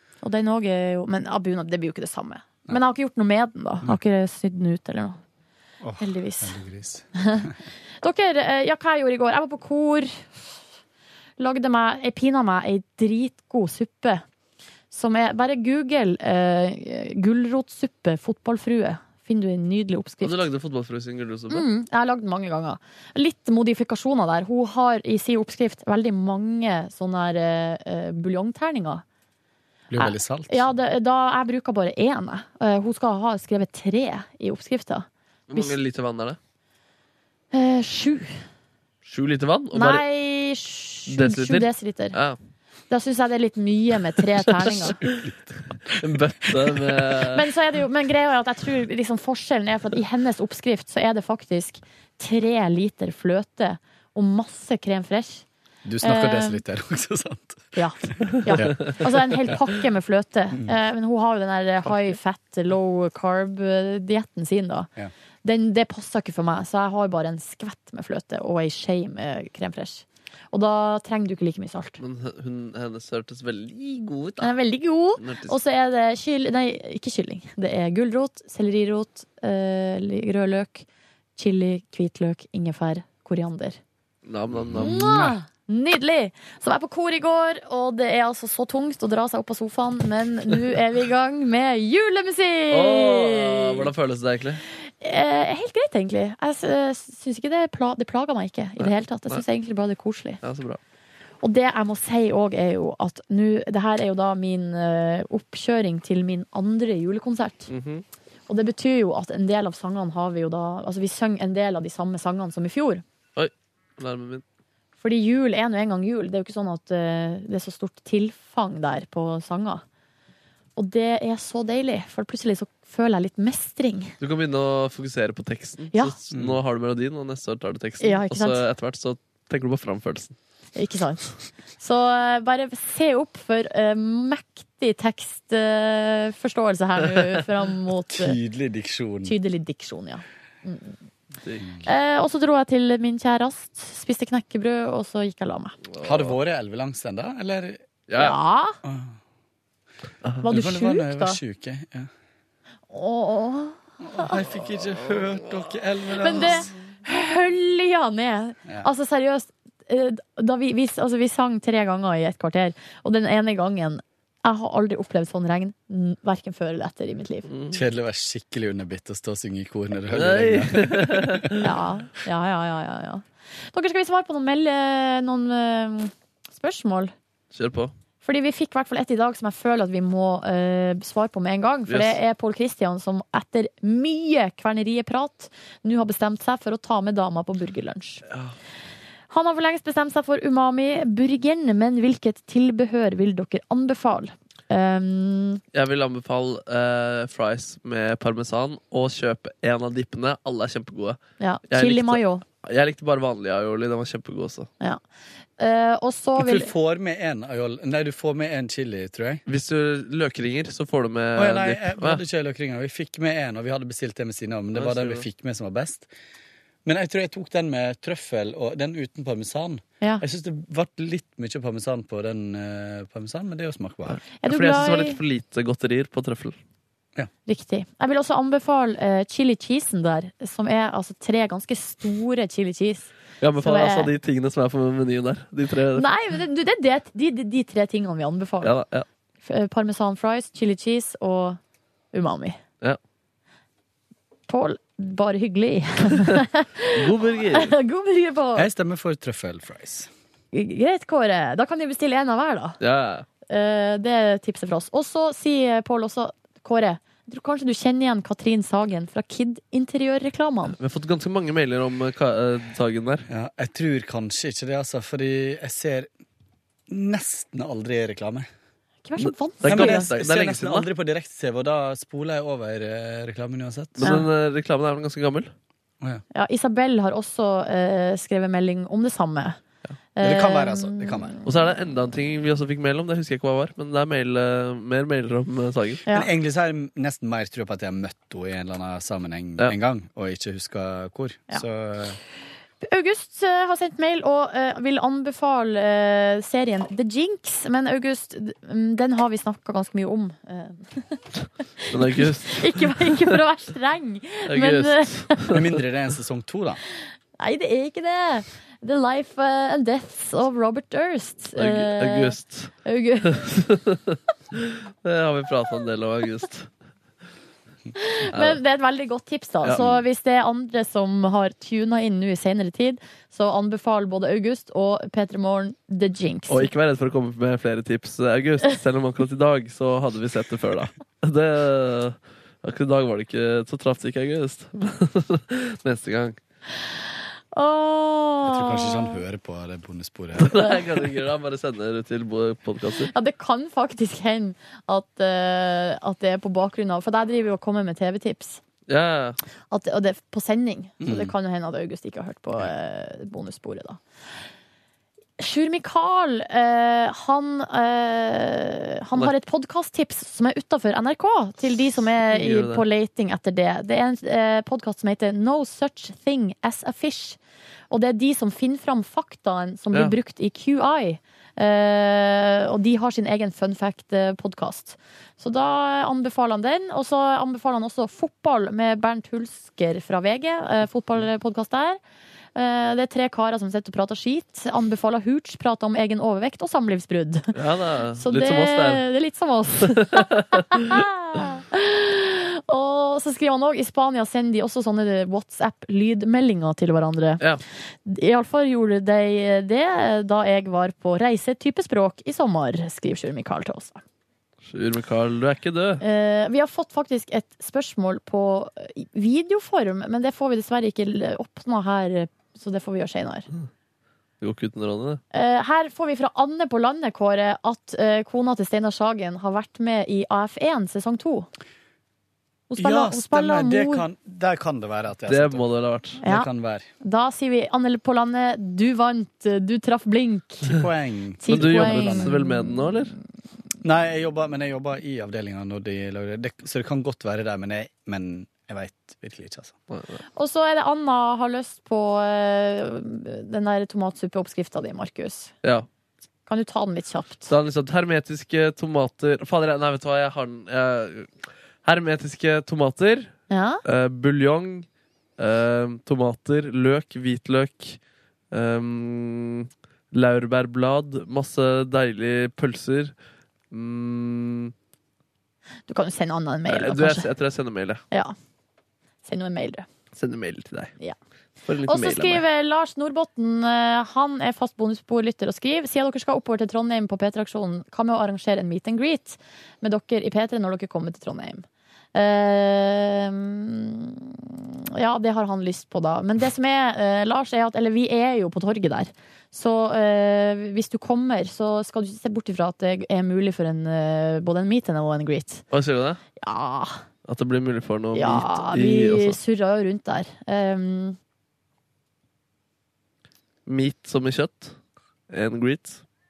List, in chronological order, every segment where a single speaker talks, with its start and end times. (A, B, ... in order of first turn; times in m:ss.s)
0:00.2-0:05.2 A
0:05.8-0:07.5 B
0:06.0-0:06.6 A
0:07.2-0:10.6 A
0:11.4-0:14.2 A
0:14.9-0:20.4 A
0:20.2-0:21.7 C
0:21.5-0:29.0 A
0:29.9-0:30.7 B
0:30.0-0:35.8 A
0:35.5-0:36.4 C
0:37.5-0:38.4 A
0:39.0-0:40.0 C
0:39.7-0:42.2 A
0:41.1-0:42.4 C
0:42.9-0:45.0 A
0:44.4-0:45.3 C
0:45.0-0:46.8 B
0:46.0-0:47.4 C
0:47.3-0:55.4 A
0:55.8-0:58.9 B
0:56.0-0:56.6 A
0:57.7-1:04.9 A
0:58.6-0:58.9 C
1:05.4-1:12.0 A
1:12.0-1:14.5 C
1:14.4-1:20.8 A
1:15.2-1:15.5 C
1:21.4-1:23.8 A
1:24.3-1:25.0 C
1:24.5-1:25.4 B
1:24.8-1:33.9 A
1:32.7-1:34.6 C
1:34.9-1:40.4 A
1:38.8-1:39.4 C
1:40.4-1:40.8 C
1:41.4-1:47.7 A
1:47.7-1:48.0 C
1:48.5-1:53.0 A
1:53.4-1:54.4 C
1:55.0-1:59.8 A
2:00.8-2:04.1 A
2:04.2-2:10.4 C
2:06.3-2:06.6 B
2:08.0-2:08.6 A
2:10.7-2:18.4 A
2:18.1-2:19.4 B
2:19.2-2:21.0 A
2:21.4-2:21.7 C
2:21.6-2:21.9 B
2:21.8-2:25.8 A
2:25.9-2:26.4 C
2:26.0-2:27.8 B
2:28.1-2:28.4 C
2:28.2-2:28.8 A
2:28.8-2:29.2 B
2:30.4-2:31.4 A
2:30.5-2:32.1 B
2:32.9-2:34.4 A
2:34.0-2:36.7 B
2:35.1-2:35.7 C
2:36.2-2:47.5 A
2:36.4-2:36.7 C
2:47.5-2:47.8 C
2:47.7-2:51.6 B
2:50.1-2:51.7 C
2:51.6-2:57.1 A
2:57.5-2:57.9 C
2:58.2-3:08.2 A
3:01.9-3:02.2 C
3:08.3-3:08.6 C
3:09.3-3:15.6 A
3:15.7-3:21.2 C
3:21.4-3:22.4 A
3:21.7-3:24.7 C
3:25.6-3:26.7 A
3:26.4-3:29.4 B
3:29.4-3:32.2 C
3:31.4-3:36.1 B
3:34.7-3:35.2 C
3:36.8-3:44.2 B
3:44.3-3:46.6 C
3:44.4-3:45.2 A
3:47.5-3:53.1 A
3:53.4-3:56.1 C
3:53.6-3:54.1 A
3:55.9-3:58.7 A
3:58.6-3:59.1 C
3:59.4-4:01.6 A
4:02.1-4:02.6 A
4:04.5-4:08.7 A
4:06.9-4:07.7 C
4:08.6-4:10.1 B
4:10.5-4:12.8 A
4:12.8-4:13.3 C
4:13.5-4:20.8 A
4:20.8-4:23.3 C
4:23.3-4:26.1 B
4:26.9-4:28.5 B
4:29.0-4:30.1 A
4:29.2-4:30.9 C
4:29.6-4:34.1 B
4:34.0-4:34.3 A
4:34.0-4:35.5 C
4:36.3-4:39.6 A
4:40.2-4:41.4 A
4:40.2-4:41.4 B
4:41.4-4:46.0 C
4:46.1-4:52.2 B
4:52.8-5:01.2 A
5:01.8-5:05.5 A
5:01.9-5:03.3 C
5:04.5-5:05.8 C
5:05.5-5:06.8 B
5:07.4-5:13.5 A
5:11.6-5:12.7 C
5:13.2-5:16.7 C
5:17.9-5:26.7 A
5:18.3-5:18.6 C
5:26.5-5:36.4 C
5:37.5-5:39.2 A
5:38.4-5:41.0 B
5:40.4-5:43.1 C
5:43.1-5:48.6 A
5:48.9-5:49.4 C
5:49.7-5:54.0 A
5:51.0-5:51.3 B
5:55.4-6:07.4 A
6:02.3-6:02.8 C
6:07.9-6:22.0 A
6:22.6-6:27.5 A
6:27.5-6:29.0 C
6:28.2-6:37.4 A
6:30.0-6:30.8 C
6:38.0-6:44.0 A
6:44.7-6:46.0 C
6:46.0-6:53.4 A
6:54.4-6:55.2 C
6:55.3-7:01.5 A
7:02.7-7:04.1 A
7:02.8-7:05.6 B
7:05.3-7:06.2 C
7:06.2-7:06.5 A
7:06.2-7:06.9 B
7:07.0-7:10.8 A
7:10.7-7:12.4 B
7:11.4-7:13.1 A
7:11.5-7:13.2 C
7:13.8-7:19.7 B
7:19.9-7:20.2 C
7:20.4-7:25.5 A
7:26.5-7:27.5 A
7:27.5-7:31.3 C
7:31.8-7:33.3 C
7:33.5-7:33.8 A
7:33.8-7:34.9 C
7:35.4-7:38.0 C
7:38.5-7:43.1 C
7:43.7-7:44.7 C
7:45.9-7:47.3 A
7:46.7-7:48.0 C
7:49.2-7:49.9 A
7:50.2-7:50.9 C
7:51.6-7:52.4 C
7:51.9-8:15.6 A
8:15.7-8:16.2 C
8:16.4-8:17.0 A
8:17.3-8:19.4 C
8:18.2-8:21.2 A
8:23.6-8:24.8 C
8:25.3-8:26.0 C